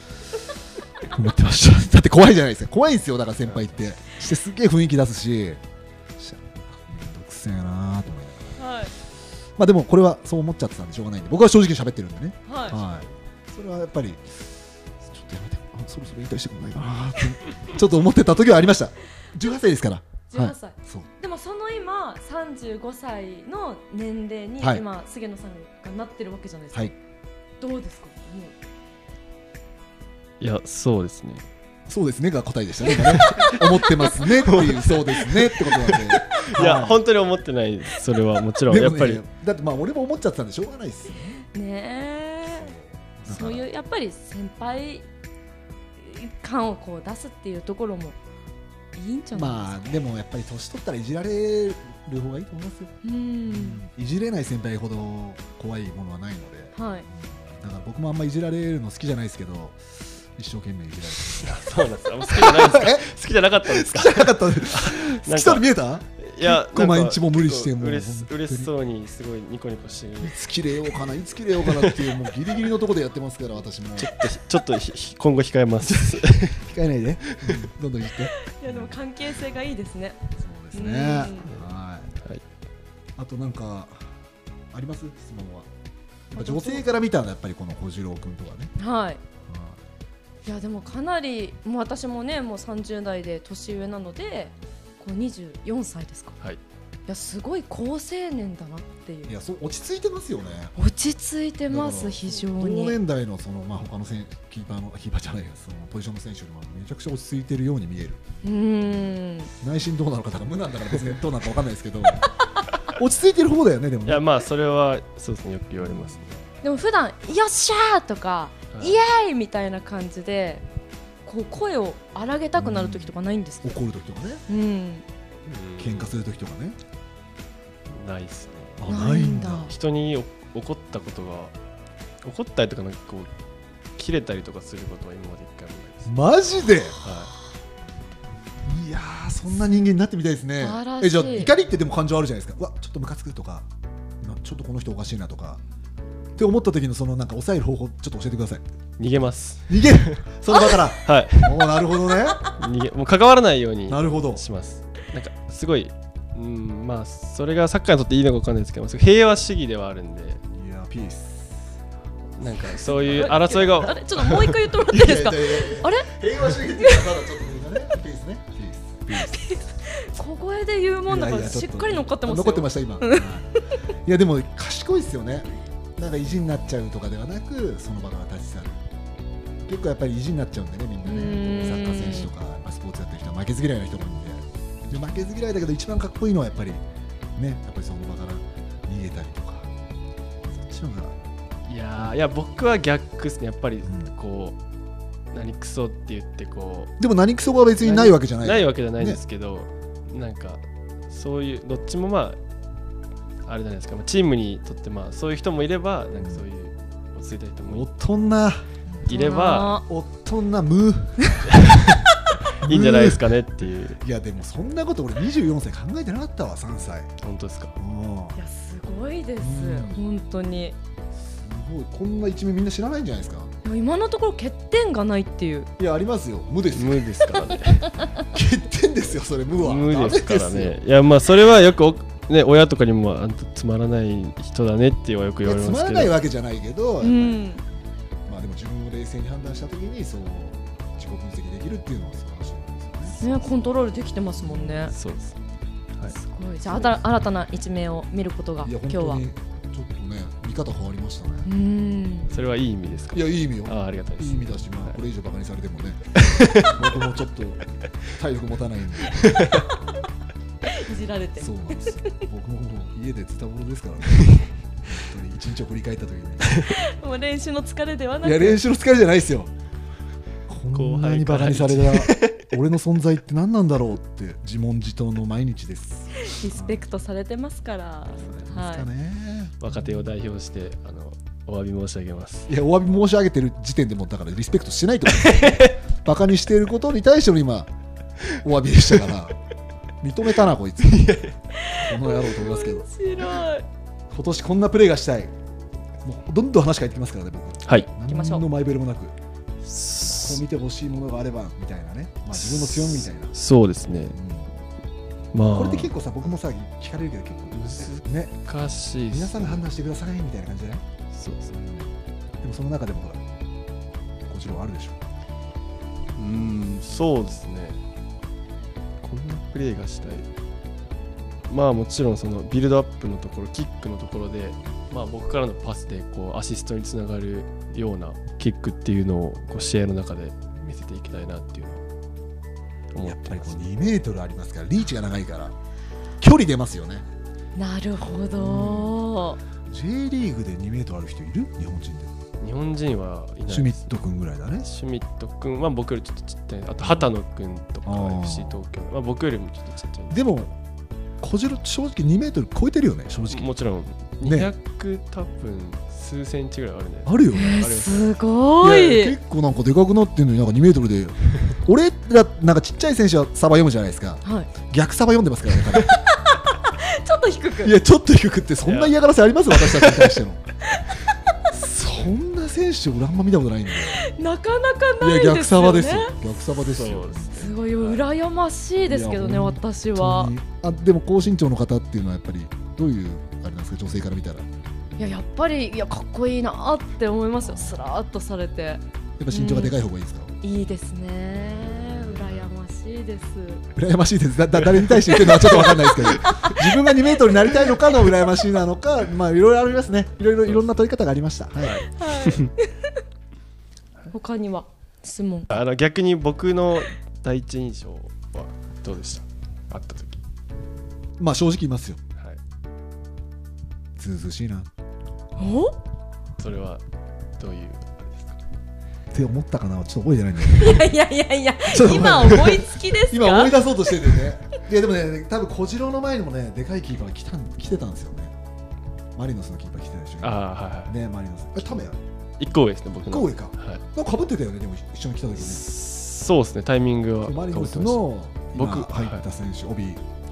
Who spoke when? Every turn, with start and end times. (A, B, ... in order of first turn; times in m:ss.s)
0:01.0-0:05.6 A
0:03.4-0:03.9 B
0:06.2-0:08.6 A
0:08.6-0:08.9 C
0:09.6-0:21.1 A
0:12.4-0:12.8 C
0:20.3-0:26.9 C
0:27.6-0:28.5 C
0:30.4-0:31.4 B
0:31.9-0:37.0 A
0:32.9-0:34.2 C
0:32.9-0:39.2 B
0:38.7-0:41.4 A
0:41.5-0:42.7 C
0:42.4-0:43.7 A
0:43.2-0:45.1 C
0:46.0-0:48.2 C
0:48.9-0:49.6 C
0:49.3-0:52.9 A
0:53.0-0:53.8 C
0:53.4-1:08.7 A
0:56.7-0:57.1 C
1:01.3-1:10.4 B
1:10.2-1:14.2 A
1:11.6-1:12.1 B
1:14.0-1:16.6 B
1:16.6-1:18.9 A
1:18.4-1:21.5 C
1:20.4-1:22.1 A
1:23.2-1:24.1 A
1:24.7-1:25.7 A
1:26.3-1:28.7 A
1:26.3-1:26.8 C
1:28.8-1:29.2 C
1:29.5-1:29.8 A
1:30.4-1:36.4 C
1:37.1-1:39.3 C
1:39.3-1:40.7 A
1:40.7-1:43.0 C
1:41.7-1:48.2 A
1:48.4-1:49.5 C
1:49.6-1:52.3 A
1:52.9-1:54.2 A
1:54.0-1:56.4 B
1:55.8-1:56.2 A
1:56.6-2:00.6 C
2:01.2-2:03.7 C
2:02.6-2:03.1 A
2:03.6-2:04.4 A
2:04.5-2:05.0 C
2:05.5-2:06.1 B
2:05.8-2:06.8 A
2:07.9-2:08.8 B
2:08.8-2:09.7 A
2:08.9-2:09.7 C
2:09.7-2:11.5 B
2:12.2-2:13.3 B
2:14.0-2:16.1 B
2:16.1-2:17.0 A
2:17.0-2:17.3 B
2:18.6-2:23.7 A
2:20.6-2:21.5 C
2:24.2-2:25.6 A
2:26.4-2:28.6 A
2:29.0-2:30.2 B
2:29.7-2:32.5 A
2:30.5-2:30.8 C
2:31.0-2:31.7 B
2:32.3-2:32.5 C
2:32.5-2:40.4 B
2:33.9-2:34.4 A
2:40.5-2:41.8 A
2:42.4-2:44.5 B
2:42.4-2:49.4 A
2:42.8-2:46.1 C
2:46.8-2:47.1 C
2:49.1-2:53.8 C
2:51.1-2:58.8 A
2:59.6-3:06.8 A
3:01.0-3:02.3 C
3:07.4-3:09.7 A
3:10.5-3:11.2 A
3:11.7-3:14.6 B
3:13.8-3:14.1 A
3:15.3-3:16.9 B
3:17.0-3:19.2 A
3:17.8-3:22.4 B
3:23.4-3:27.9 B
3:26.2-3:26.4 A
3:27.7-3:28.6 A
3:28.9-3:29.8 C
3:29.1-3:29.8 B
3:29.8-3:31.6 A
3:31.5-3:34.0 B
3:32.6-3:33.3 A
3:34.0-3:37.1 A
3:37.2-3:37.8 B
3:37.8-3:38.3 A
3:38.3-3:40.8 C
3:39.4-3:40.0 A
3:41.3-3:43.6 A
3:43.6-3:45.7 C
3:45.8-3:47.5 A
3:46.7-3:47.9 B
3:47.8-3:48.2 C
3:48.3-3:50.8 A
3:49.5-3:56.2 B
3:55.4-3:57.5 A
3:57.0-3:57.6 C
3:58.3-4:03.2 A
4:03.1-4:04.9 C
4:04.5-4:04.8 A
4:04.8-4:05.4 B
4:06.1-4:09.2 C
4:06.7-4:07.0 A
4:08.6-4:11.5 A
4:11.4-4:12.3 C
4:12.3-4:15.0 B
4:13.1-4:17.6 A
4:16.2-4:16.8 B
4:18.1-4:19.4 A
4:19.1-4:19.6 B
4:20.7-4:22.2 C
4:21.4-4:26.7 A
4:26.6-4:28.6 C
4:28.2-4:29.5 A
4:30.5-4:36.8 A
4:30.7-4:32.4 B
4:36.2-4:38.9 C
4:38.2-4:40.1 A
4:39.6-4:42.5 B
4:42.5-4:47.7 A
4:45.1-4:45.8 B
4:48.4-4:49.4 A
4:50.0-4:51.2 A
4:50.8-4:51.4 B
4:51.6-4:53.6 C
4:51.7-4:52.8 A
4:54.1-4:55.3 A
4:56.0-4:59.1 A
4:57.7-4:58.4 C
4:59.6-5:00.4 B
5:00.1-5:03.3 A
5:02.3-5:04.2 B
5:04.1-5:04.5 A
5:05.3-5:05.9 B
5:05.5-5:08.4 A
5:07.5-5:09.6 B
5:09.1-5:10.8 A
5:11.1-5:11.6 B
5:11.5-5:13.2 A
5:14.3-5:15.0 A
5:16.2-5:17.8 B
5:19.0-5:20.2 B
5:21.5-5:31.8 B
5:32.9-5:33.7 B
5:33.0-5:35.6 A
5:36.2-5:37.0 A
5:37.6-5:39.4 C
5:38.0-5:39.0 A
5:39.6-5:42.1 A
5:42.4-5:44.0 B
5:43.5-5:44.7 A
5:44.6-5:50.3 B
5:46.8-5:47.1 A
5:47.8-5:48.6 A
5:50.1-5:50.6 A
5:51.2-5:53.5 A
5:53.3-5:58.1 B
5:54.2-5:54.5 A
5:57.0-5:57.8 A
5:57.3-5:59.2 C
5:58.6-6:06.0 A
6:04.2-6:04.5 C
6:06.1-6:07.7 C
6:07.6-6:10.4 A
6:08.6-6:09.0 B
6:09.5-6:10.2 B
6:10.8-6:11.1 C
6:11.5-6:14.0 A
6:13.9-6:16.2 C
6:15.0-6:17.3 A
6:16.7-6:18.0 B
6:17.3-6:20.3 C
6:18.8-6:24.5 A
6:25.0-6:29.8 C
6:27.4-6:27.9 A
6:29.2-6:30.4 A
6:30.4-6:33.6 C
6:31.3-6:32.5 A
6:33.8-6:41.8 A
6:34.6-6:36.5 B
6:35.5-6:37.6 C
6:40.4-6:40.7 B
6:41.6-6:42.5 B
6:41.9-6:43.0 C
6:44.1-6:45.5 C
6:45.5-6:50.2 B
6:51.2-6:52.0 A
6:54.0-6:54.7 A
6:55.4-6:55.8 C
6:56.4-6:56.8 B
6:57.4-6:58.4 B
6:59.1-7:00.9 A
7:00.4-7:04.2 C
7:01.6-7:08.3 A
7:09.2-7:12.0 A
7:10.2-7:10.9 B
7:11.6-7:11.9 B
7:12.4-7:13.8 B
7:13.1-7:15.6 A
7:15.4-7:19.2 B
7:17.2-7:20.0 A